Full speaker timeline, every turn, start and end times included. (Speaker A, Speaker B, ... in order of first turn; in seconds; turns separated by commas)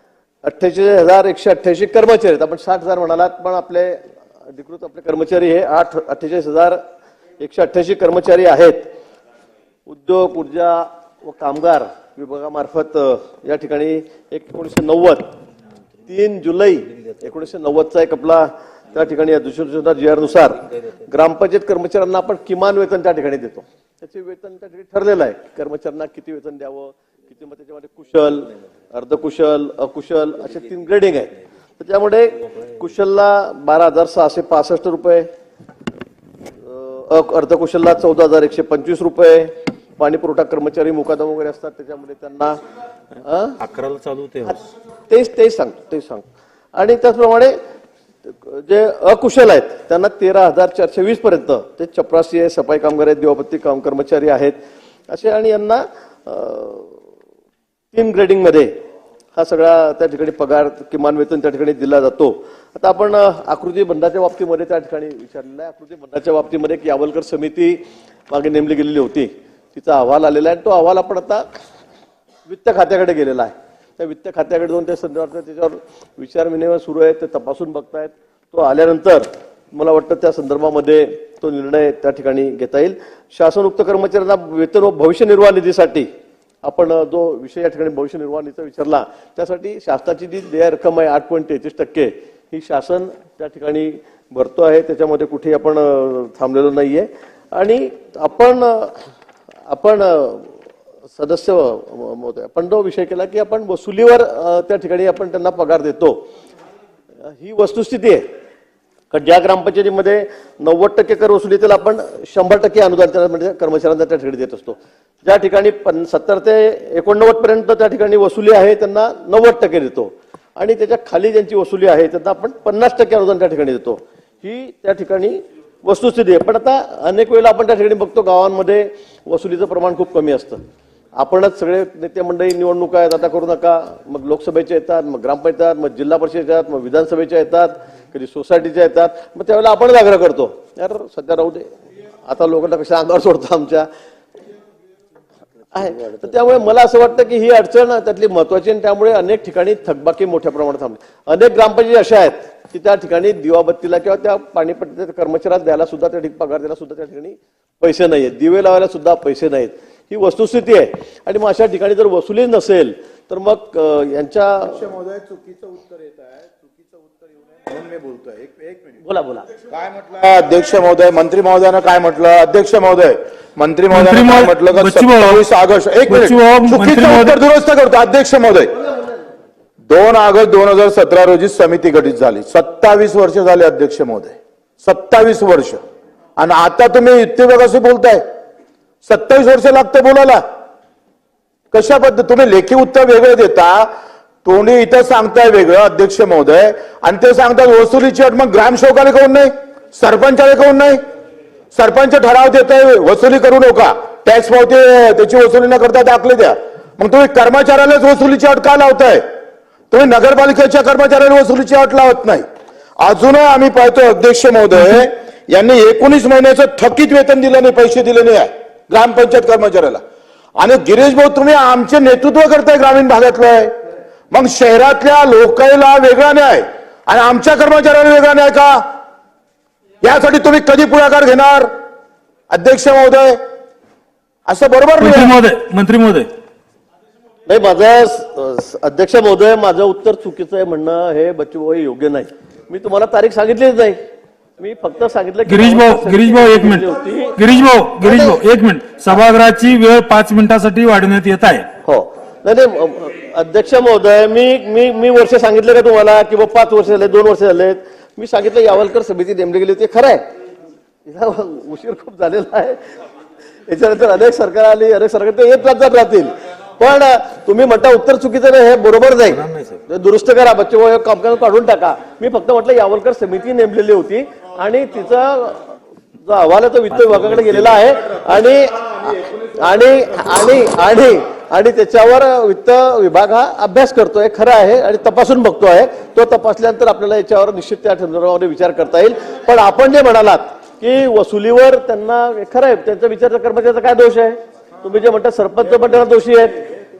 Speaker A: 0.4-6.8, Speaker A: 7.4-8.9, Speaker A: 9.9-15.3, Speaker A: 16.1-35.3, Speaker A: 36.6-42.6, Speaker A: 43.2-43.6, Speaker B: 43.6-44.6, Speaker A: 44.5-46.2, Speaker A: 46.7-47.5, Speaker A: 48.2-54.6, Speaker A: 55.1-57.0, Speaker A: 57.9-58.7, Speaker A: 59.4-67.8, Speaker A: 68.3-71.4, Speaker A: 72.5-86.1, Speaker A: 86.6-98.9, Speaker A: 99.7-100.5, Speaker A: 101.1-106.3, Speaker A: 107.2-108.2, Speaker A: 109.1-130.6, Speaker A: 131.2-141.7, Speaker A: 142.2-143.9, Speaker A: 145.7-164.9, Speaker A: 169.0-169.5, Speaker C: 169.9-178.7, Speaker B: 173.9-175.4, Speaker B: 176.1-177.4, Speaker C: 179.9-185.8, Speaker C: 186.4-188.2, Speaker C: 189.0-190.4, Speaker C: 191.7-193.9, Speaker C: 194.4-201.0, Speaker C: 201.7-209.2, Speaker C: 209.9-212.4, Speaker C: 213.0-220.0, Speaker C: 220.6-223.7, Speaker C: 224.3-228.8, Speaker C: 230.0-231.7, Speaker C: 232.5-233.4, Speaker C: 234.5-235.3, Speaker B: 235.0-236.3, Speaker A: 237.5-244.0, Speaker A: 244.6-247.3, Speaker B: 245.4-251.7, Speaker A: 248.0-248.3, Speaker A: 251.8-260.2, Speaker A: 261.1-262.8, Speaker A: 263.7-296.6, Speaker B: 269.2-269.8, Speaker B: 276.9-277.8